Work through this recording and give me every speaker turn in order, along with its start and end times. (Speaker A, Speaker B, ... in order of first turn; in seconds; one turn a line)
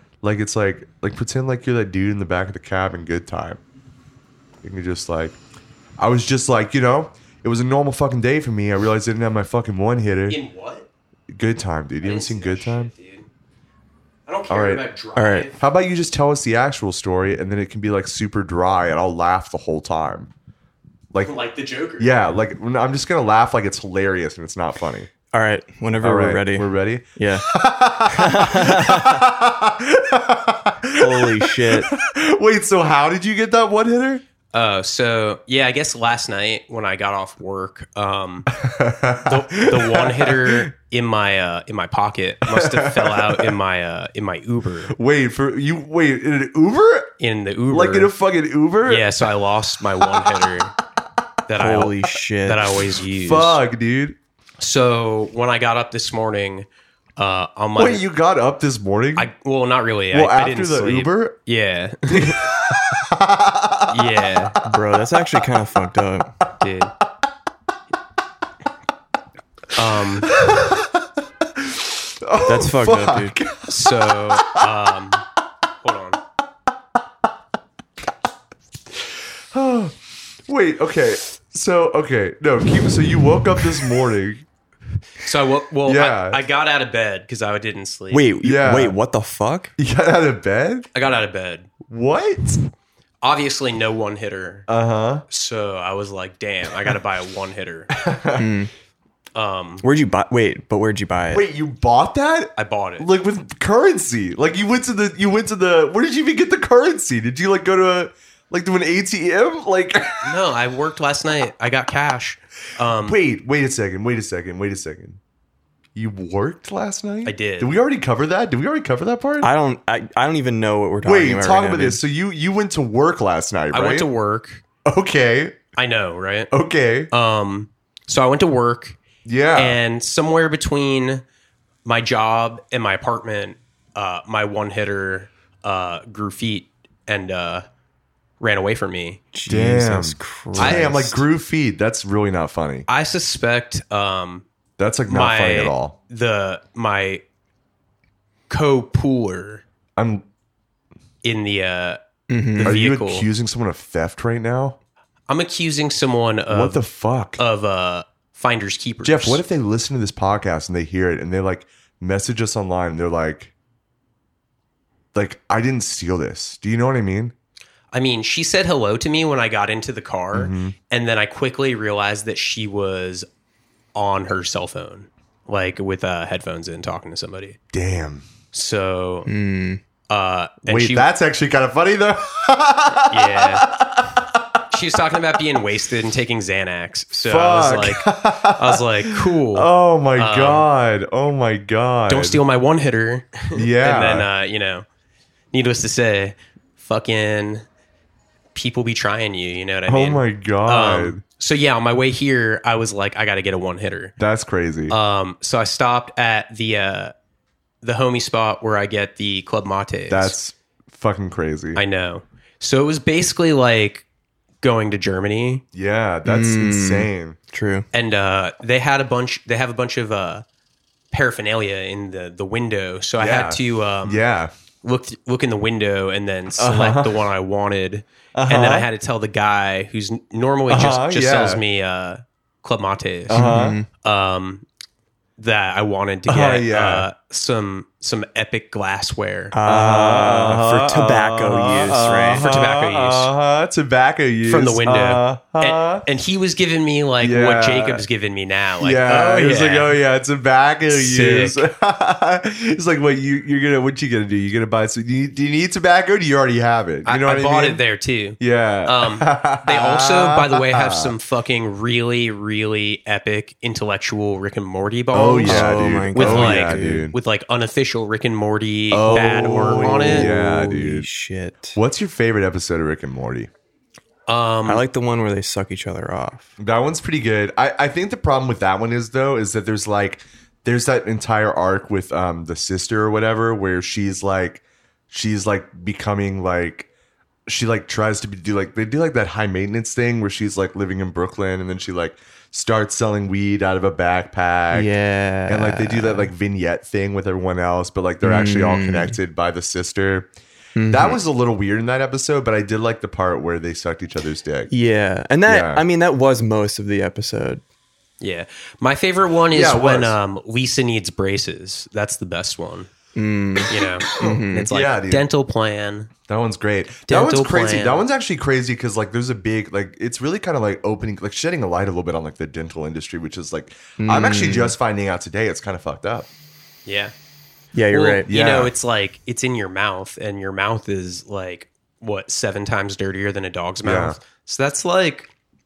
Speaker A: 0.2-3.6
Speaker A: 4.6-5.4
Speaker A: 6.0-10.4
Speaker B: 10.3-10.8
Speaker A: 11.3-12.9
Speaker B: 12.0-13.3
Speaker B: 14.3-15.6
Speaker A: 14.5-14.8
Speaker C: 15.2-15.5
Speaker A: 15.6-20.3
Speaker B: 21.2-22.1
Speaker A: 22.0-25.1
Speaker C: 25.3-27.5
Speaker A: 26.0-34.2
Speaker C: 28.1-29.2
Speaker C: 31.0-31.9
Speaker B: 34.5-38.5
Speaker A: 38.5-40.7
Speaker B: 39.2-44.9
Speaker A: 42.5-43.5
Speaker A: 44.9-47.1
Speaker B: 47.2-48.1
Speaker A: 47.7-49.1
Speaker B: 48.9-50.7
Speaker A: 50.1-50.6
Speaker B: 51.5-53.6
Speaker C: 51.6-52.8
Speaker A: 53.2-54.2
Speaker B: 54.6-56.6
Speaker B: 57.2-58.0
Speaker A: 57.8-59.3
Speaker B: 59.1-62.5
Speaker A: 60.1-61.3
Speaker A: 62.1-64.3
Speaker B: 63.9-64.5
Speaker C: 64.6-66.3
Speaker B: 66.6-66.9
Speaker B: 69.7-70.3
Speaker A: 70.2-71.0
Speaker A: 71.6-74.7
Speaker C: 72.5-73.3
Speaker B: 73.7-75.2
Speaker B: 75.8-76.2
Speaker A: 79.5-80.0
Speaker A: 80.5-84.4
Speaker B: 85.2-88.3
Speaker A: 85.8-86.4
Speaker C: 88.1-89.7
Speaker A: 88.4-89.0
Speaker A: 89.8-90.9
Speaker B: 90.9-91.7
Speaker A: 91.9-92.6
Speaker B: 93.2-94.7
Speaker A: 94.7-95.2
Speaker B: 95.3-97.9
Speaker A: 97.9-98.5
Speaker C: 98.4-98.7
Speaker B: 99.3-99.8
Speaker C: 99.8-101.4
Speaker A: 101.3-110.3
Speaker B: 102.6-103.1
Speaker B: 110.2-113.2
Speaker A: 113.0-115.2
Speaker A: 116.0-119.5
Speaker B: 117.2-117.7
Speaker C: 119.4-122.0
Speaker A: 121.0-124.1
Speaker B: 123.7-124.6
Speaker A: 124.8-125.6
Speaker B: 125.8-126.5
Speaker A: 126.5-127.1
Speaker B: 127.1-129.0
Speaker A: 129.2-129.8
Speaker B: 129.6-131.2
Speaker B: 131.8-137.6
Speaker B: 138.4-139.2
Speaker C: 139.3-141.2
Speaker A: 139.4-142.8
Speaker B: 140.6-140.9
Speaker B: 142.9-144.4
Speaker A: 144.8-145.9
Speaker B: 145.1-147.2
Speaker B: 148.5-149.6
Speaker A: 150.0-150.2
Speaker B: 151.2-152.0
Speaker C: 152.3-152.8
Speaker B: 152.5-153.3
Speaker A: 152.6-154.8
Speaker B: 155.3-156.8
Speaker A: 156.5-157.4
Speaker B: 157.4-159.4
Speaker A: 159.0-163.5
Speaker A: 165.1-167.3
Speaker B: 167.9-173.2
Speaker A: 170.3-170.7
Speaker B: 173.9-177.6
Speaker A: 177.7-178.2
Speaker B: 178.5-179.3
Speaker C: 179.2-179.8
Speaker B: 180.1-181.1
Speaker A: 180.7-184.6
Speaker B: 183.1-183.7
Speaker B: 184.7-190.7
Speaker A: 187.2-192.4
Speaker B: 192.1-194.8
Speaker A: 193.5-194.3
Speaker B: 195.5-197.6
Speaker B: 198.5-204.2
Speaker A: 199.9-201.2
Speaker A: 204.2-204.9
Speaker B: 204.9-207.1
Speaker B: 207.8-210.3
Speaker A: 210.1-211.8
Speaker B: 211.8-214.0
Speaker B: 214.6-215.6
Speaker A: 215.7-217.4
Speaker C: 216.2-217.8
Speaker B: 217.9-220.4
Speaker B: 221.1-224.2
Speaker A: 223.2-224.5
Speaker B: 224.8-234.6
Speaker A: 226.6-227.2
Speaker A: 228.3-228.9
Speaker A: 230.7-231.6
Speaker A: 233.3-233.8
Speaker C: 233.3-233.9
Speaker B: 235.4-239.5
Speaker A: 236.3-237.1
Speaker C: 239.5-242.5
Speaker A: 239.6-246.0
Speaker B: 242.1-243.3
Speaker B: 244.4-250.0
Speaker A: 247.2-248.0
Speaker A: 248.8-257.8
Speaker B: 250.9-251.6
Speaker B: 257.0-270.4
Speaker A: 258.4-261.1
Speaker A: 265.1-267.1
Speaker C: 265.4-267.1
Speaker A: 268.9-271.1
Speaker C: 269.7-271.8
Speaker A: 271.7-273.5
Speaker B: 274.3-274.8
Speaker C: 274.6-276.5
Speaker A: 276.6-286.9
Speaker A: 287.5-294.9
Speaker C: 294.7-296.3
Speaker A: 295.5-300.3
Speaker C: 298.2-299.2
Speaker C: 300.8-301.2
Speaker A: 300.9-304.7
Speaker C: 304.7-307.6
Speaker A: 305.5-305.8
Speaker B: 308.2-312.9
Speaker A: 309.5-310.2
Speaker C: 313.1-314.7
Speaker B: 313.7-316.1
Speaker A: 314.1-315.2
Speaker A: 316.3-326.3
Speaker B: 317.1-318.0
Speaker C: 324.0-324.7
Speaker B: 326.9-327.1
Speaker C: 327.7-328.3
Speaker B: 327.9-335.3
Speaker A: 328.3-328.7
Speaker A: 333.8-334.2